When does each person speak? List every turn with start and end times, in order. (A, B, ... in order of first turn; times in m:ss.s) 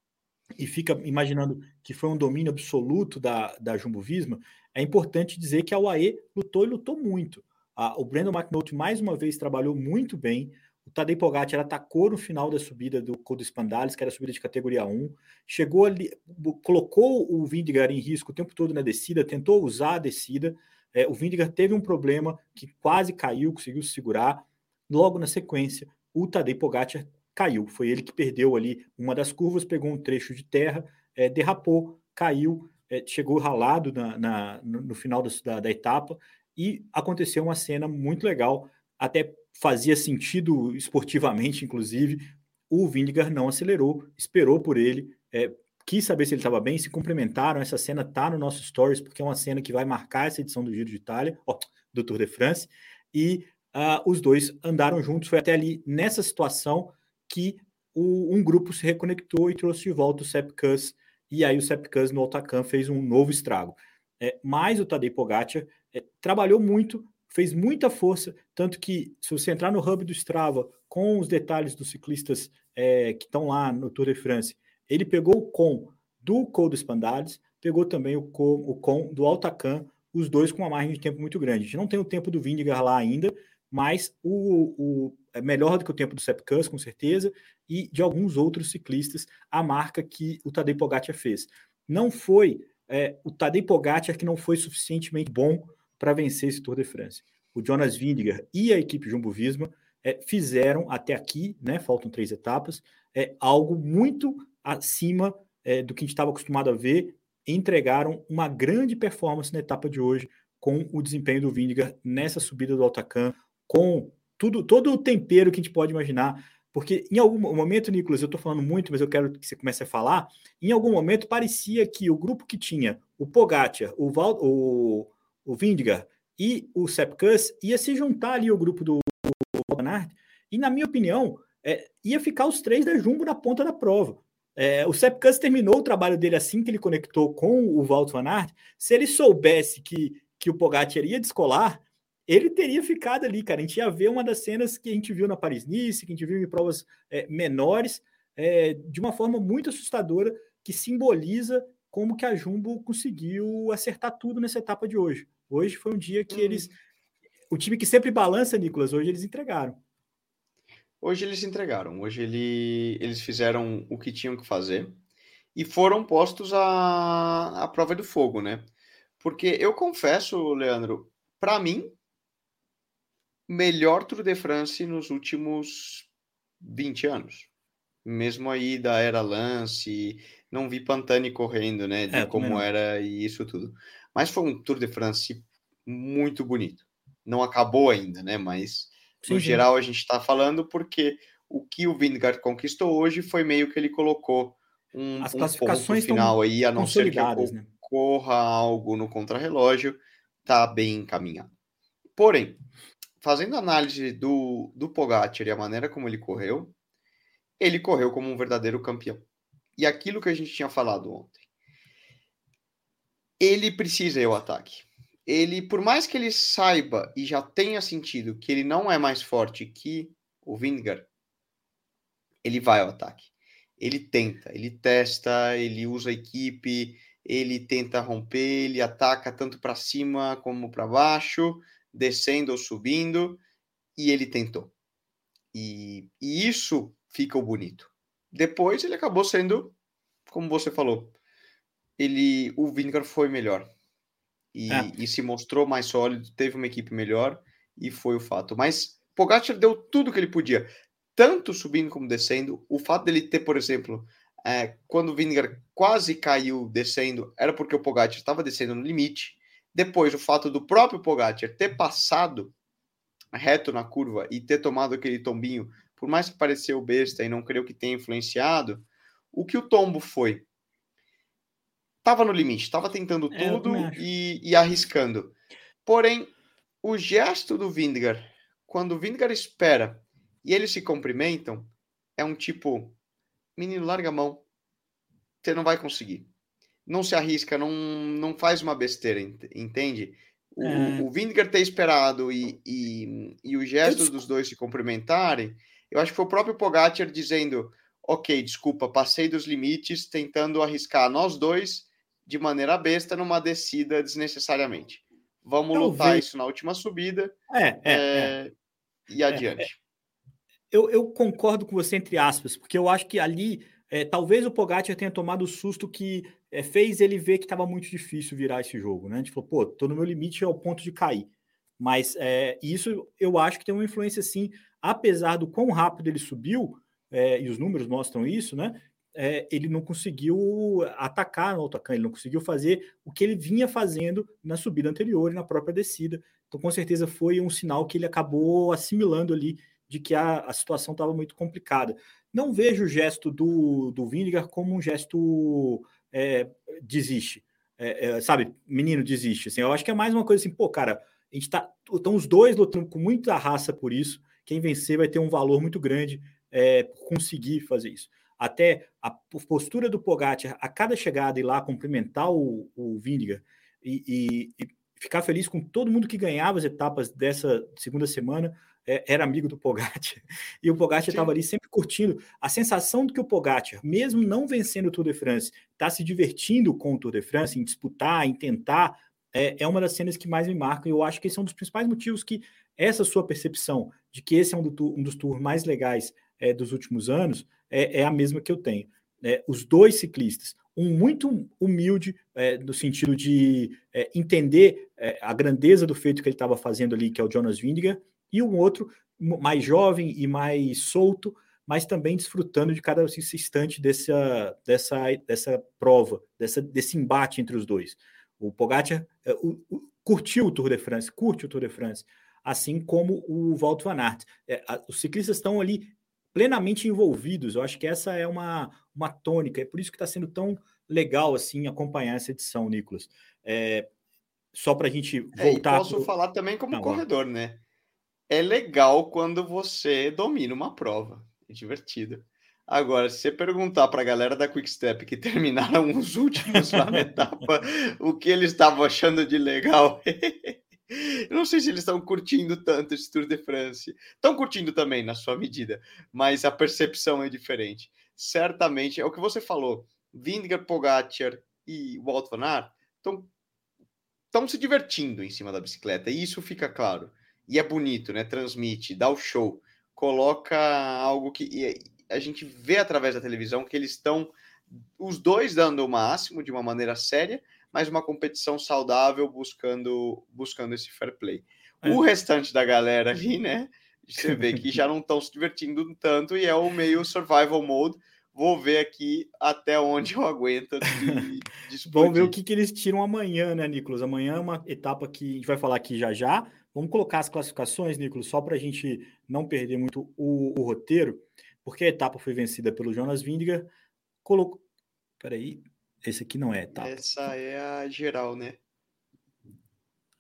0:00.6-2:36.7 A
2:36.3-2:36.7 B
2:37.5-2:39.8 A
2:41.0-2:45.0 B
2:45.6-2:48.7 B
2:49.2-2:52.0 B
2:53.5-2:56.1 B
2:56.6-2:57.5 B
2:58.0-3:21.5 B
3:02.1-3:02.7 A
3:09.2-3:09.6 A
3:15.2-3:17.7 A
3:22.2-3:22.6 B
3:23.2-3:26.8 B
3:27.6-3:29.3 B
3:29.8-3:31.4 B
3:33.4-3:41.1 B
3:42.4-3:53.4 B
3:54.0-3:54.7 B
3:55.5-3:59.8 B
4:00.3-4:01.2 B
4:02.0-4:03.7 B
4:04.5-4:22.5 B
4:23.3-4:30.5 B
4:32.0-4:35.3 B
4:33.3-4:34.0 A
4:35.9-4:36.3 B
4:36.8-4:43.0 B
4:43.6-4:44.4 B
4:45.4-4:46.3 B
4:46.9-5:08.5 B
4:50.6-4:51.1 A
4:53.8-4:54.2 A
5:05.7-5:06.2 A
5:07.5-5:08.4 A
5:09.1-5:09.8 B
5:09.3-5:09.6 A
5:10.7-5:21.3 A
5:21.8-7:03.9 A
6:11.1-6:11.3 B
7:04.5-7:06.1 A
7:05.4-7:07.6 B
7:06.7-7:07.0 A
7:08.3-7:33.3 B
7:34.3-8:02.4 B
8:01.9-8:13.7 A
8:14.2-8:14.6 A
8:15.2-8:17.3 A
8:16.7-8:18.6 B